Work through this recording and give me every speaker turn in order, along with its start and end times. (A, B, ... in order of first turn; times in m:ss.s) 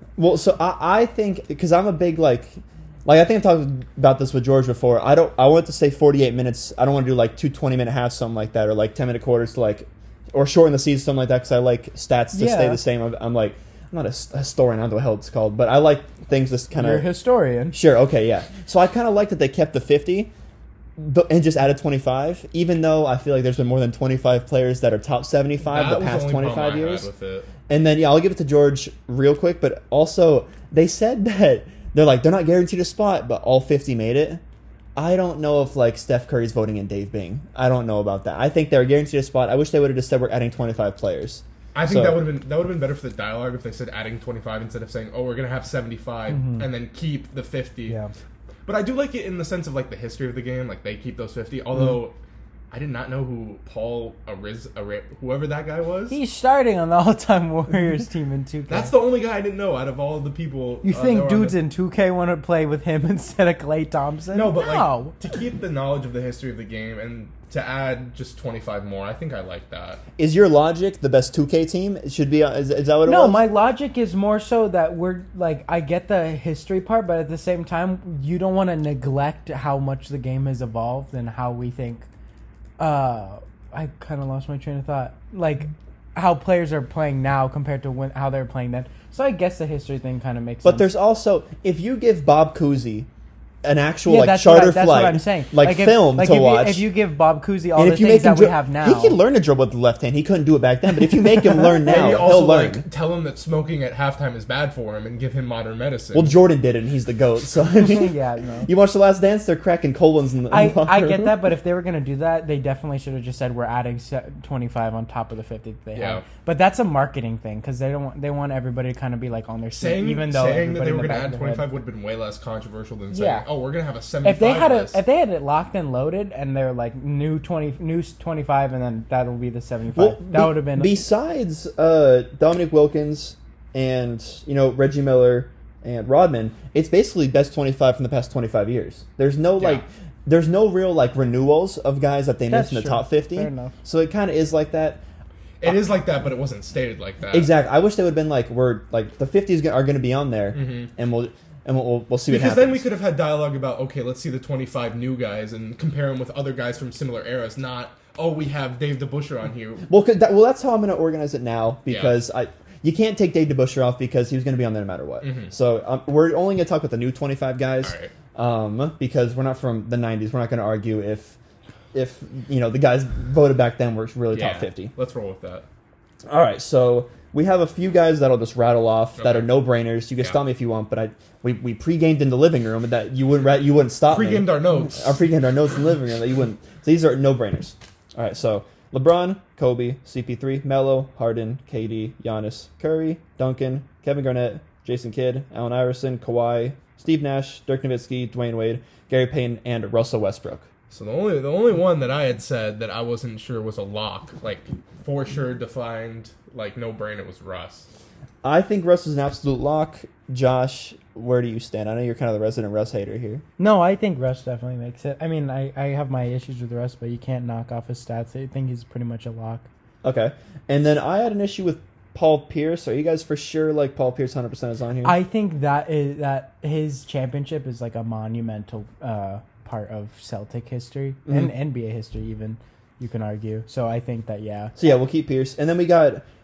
0:00.2-0:17.0 A
0:12.3-0:12.8 B
0:16.7-0:17.8 B
0:17.7-0:20.3 A
0:21.0-0:27.1 A
0:25.6-0:27.5 C
0:27.7-0:34.4 A
0:35.0-0:42.3 A
0:41.7-0:48.0 C
0:46.3-0:46.6 B
0:48.6-0:52.1 C
0:52.7-0:56.2 C
0:56.1-0:58.9 B
0:58.7-1:01.6 C
1:00.8-1:05.1 B
1:04.3-1:10.0 C
1:10.2-1:13.4 A
1:13.0-1:22.0 B
1:22.8-1:30.9 B
1:30.6-1:33.1 A
1:33.6-1:36.9 A
1:34.0-1:39.2 B
1:37.8-1:42.8 A
1:41.8-1:46.4 C
1:46.1-1:48.1 A
1:47.8-1:48.7 B
1:48.6-1:51.4 A
1:50.5-2:01.6 B
1:55.9-1:56.2 C
1:59.7-2:05.0 C
2:03.1-2:03.4 B
2:04.2-2:11.0 B
2:09.9-2:25.0 A
2:19.6-2:19.8 C
2:22.5-2:23.7 B
2:25.6-2:27.5 C
2:25.6-2:25.9 A
2:27.3-2:32.8 A
2:30.5-2:30.9 C
2:32.3-2:39.8 C
2:39.9-2:51.4 A
2:41.9-2:42.2 C
2:45.2-2:45.5 C
2:47.8-2:48.1 C
2:51.9-2:54.9 A
2:54.3-2:55.6 C
2:56.3-3:20.7 A
2:59.2-2:59.5 C
3:04.1-3:05.1 C
3:20.9-3:27.8 C
3:28.4-3:33.4 A
3:33.6-3:39.7 B
3:40.0-3:45.2 A
3:45.0-3:54.8 B
3:54.8-3:56.2 A